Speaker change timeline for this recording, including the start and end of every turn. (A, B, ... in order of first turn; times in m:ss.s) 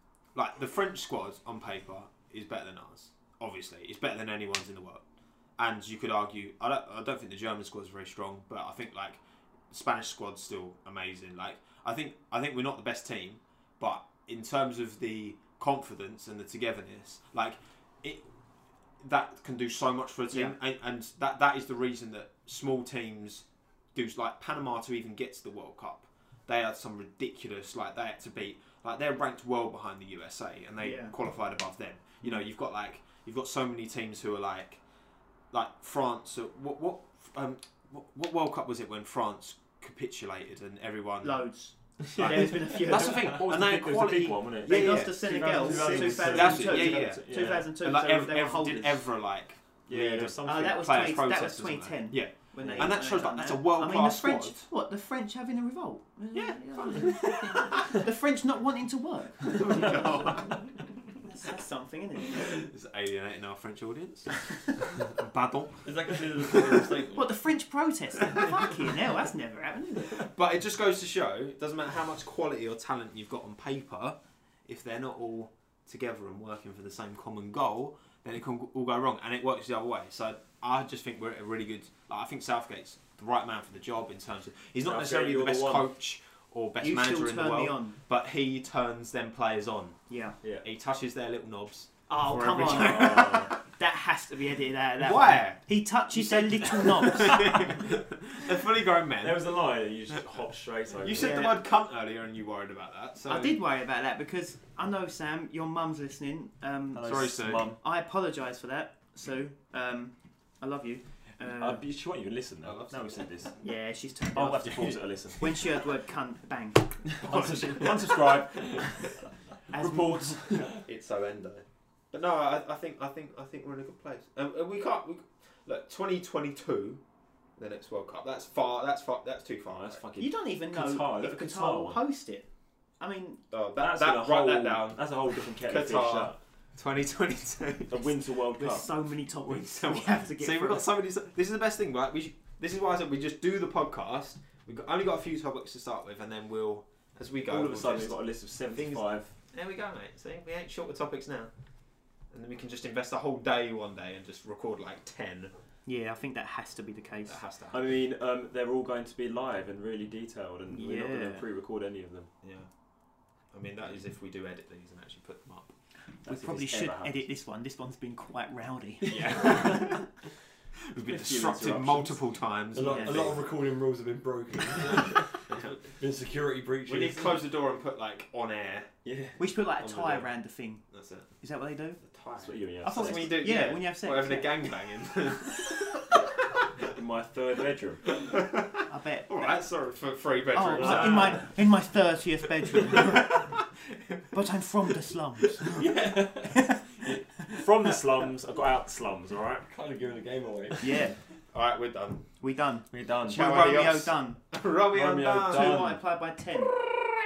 0:00.3-0:05.0 A
0:05.6-0:18.3 A
0:19.0-0:34.8 A
0:20.3-0:20.6 B
0:30.8-0:31.1 B
0:35.5-0:41.4 A
0:41.2-0:43.3 B
0:42.0-0:47.7 C
0:42.1-0:45.2 A
0:44.6-0:49.0 B
0:45.3-0:46.6 D
0:46.2-0:54.7 A
0:49.9-0:50.8 C
0:50.4-1:00.6 B
0:52.6-0:52.9 C
0:56.3-0:57.9 A
0:59.5-1:00.6 A
1:01.2-1:02.5 B
1:02.2-1:06.9 A
1:05.8-1:07.3 D
1:07.1-1:10.2 B
1:08.3-1:08.6 A
1:10.0-1:30.0 A
1:24.8-1:25.9 C
1:26.8-1:28.0 B
1:30.1-1:30.4 B
1:30.6-1:33.5 A
1:32.1-1:37.8 B
1:32.6-1:33.5 C
1:35.0-1:39.5 A
1:39.2-1:41.4 C
1:41.0-1:43.6 A
1:41.1-1:41.6 B
1:43.2-1:51.8 B
1:46.9-1:47.8 C
1:47.0-1:47.7 A
1:51.5-1:53.5 C
1:52.6-1:53.6 A
1:53.6-1:57.2 B
1:54.3-1:55.8 C
1:57.1-1:59.1 C
1:57.2-1:58.8 A
1:59.7-2:00.7 B
1:59.7-2:00.8 C
2:00.8-2:07.0 A
2:07.6-2:10.0 A
2:09.7-2:12.0 C
2:10.2-2:12.4 B
2:13.0-2:13.4 B
2:13.5-2:18.0 A
2:13.8-2:16.4 C
2:17.9-2:18.9 C
2:18.6-2:20.9 B
2:19.4-2:28.2 A
2:27.5-2:29.3 C
2:28.7-2:31.5 A
2:32.3-2:35.5 A
2:35.8-2:37.4 B
2:37.3-2:37.8 A
2:37.7-2:42.3 C
2:40.7-2:41.4 B
2:42.4-2:42.7 A
2:43.5-2:45.7 A
2:46.2-2:50.0 B
2:46.2-2:47.2 C
2:49.0-2:50.0 A
2:49.0-2:50.0 C
2:50.9-2:53.5 A
2:51.0-2:52.2 C
2:52.7-2:55.4 D
2:52.8-2:53.2 B
2:54.8-2:55.8 A
2:55.9-2:57.4 D
2:56.8-2:58.9 A
2:59.0-3:00.2 C
2:59.4-3:00.8 B
3:00.9-3:01.3 A
3:01.4-3:02.0 B
3:02.0-3:06.9 A
3:02.4-3:03.4 C
3:02.8-3:04.7 B
3:06.8-3:08.2 C
3:08.1-3:11.5 A
3:08.9-3:09.4 B
3:10.5-3:13.6 B
3:10.8-3:11.5 C
3:12.7-3:14.3 A
3:14.3-3:15.8 B
3:15.7-3:17.1 D
3:15.8-3:16.3 C
3:16.5-3:16.9 B
3:17.0-3:19.6 C
3:19.6-3:21.0 D
3:20.8-3:21.2 B
3:21.5-3:22.3 A
3:22.4-3:24.4 B
3:22.9-3:23.6 C
3:23.2-3:26.0 A
3:24.9-3:26.0 C
3:25.4-3:26.7 B